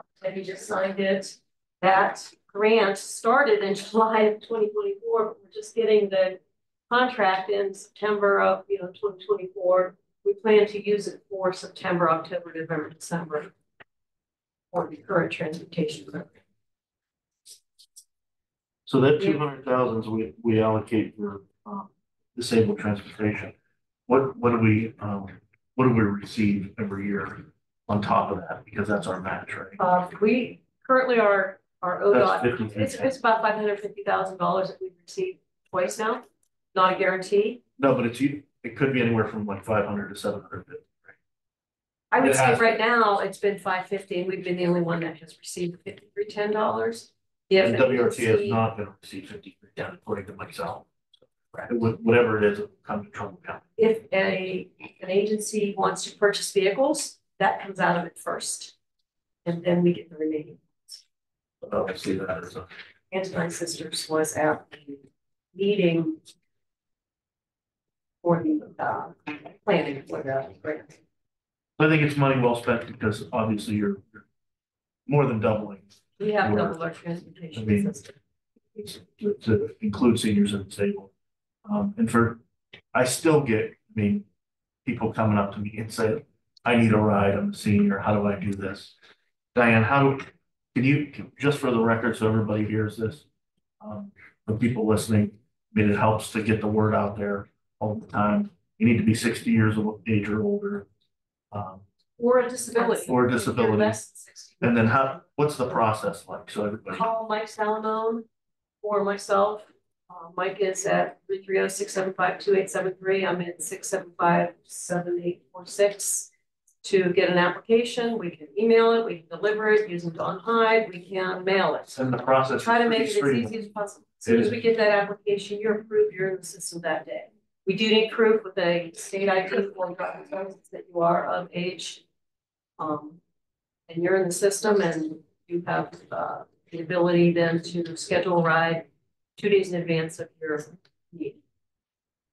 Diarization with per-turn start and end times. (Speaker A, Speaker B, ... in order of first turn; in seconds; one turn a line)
Speaker A: 0.2-13.5
Speaker A: 14.7-16.4
Speaker B: 18.9-23.5
Speaker A: 19.2-19.5
Speaker B: 24.1-29.8
Speaker A: 29.8-37.6
Speaker B: 32.1-33.1
Speaker B: 37.8-41.0
Speaker A: 42.1-48.6
Speaker B: 42.2-42.8
Speaker B: 47.6-50.9
Speaker B: 51.6-53.6
Speaker A: 53.8-58.7
Speaker A: 59.5-61.0
Speaker B: 61.6-62.7
Speaker A: 63.1-66.2
Speaker A: 68.2-71.0
Speaker B: 71.8-74.2
Speaker B: 75.1-76.9
Speaker A: 76.2-78.2
Speaker B: 77.5-78.0
Speaker B: 78.8-81.1
Speaker B: 81.6-82.4
Speaker B: 82.9-84.2
Speaker B: 84.8-88.9
Speaker B: 89.5-93.2
Speaker B: 93.8-100.9
Speaker B: 101.5-101.8
Speaker A: 102.2-105.2
Speaker B: 103.0-104.0
Speaker B: 104.6-107.1
Speaker A: 106.9-108.3
Speaker A: 108.8-116.3
Speaker A: 116.8-132.0
Speaker B: 121.9-123.6
Speaker B: 124.2-124.5
Speaker A: 132.8-133.2
Speaker A: 133.9-141.4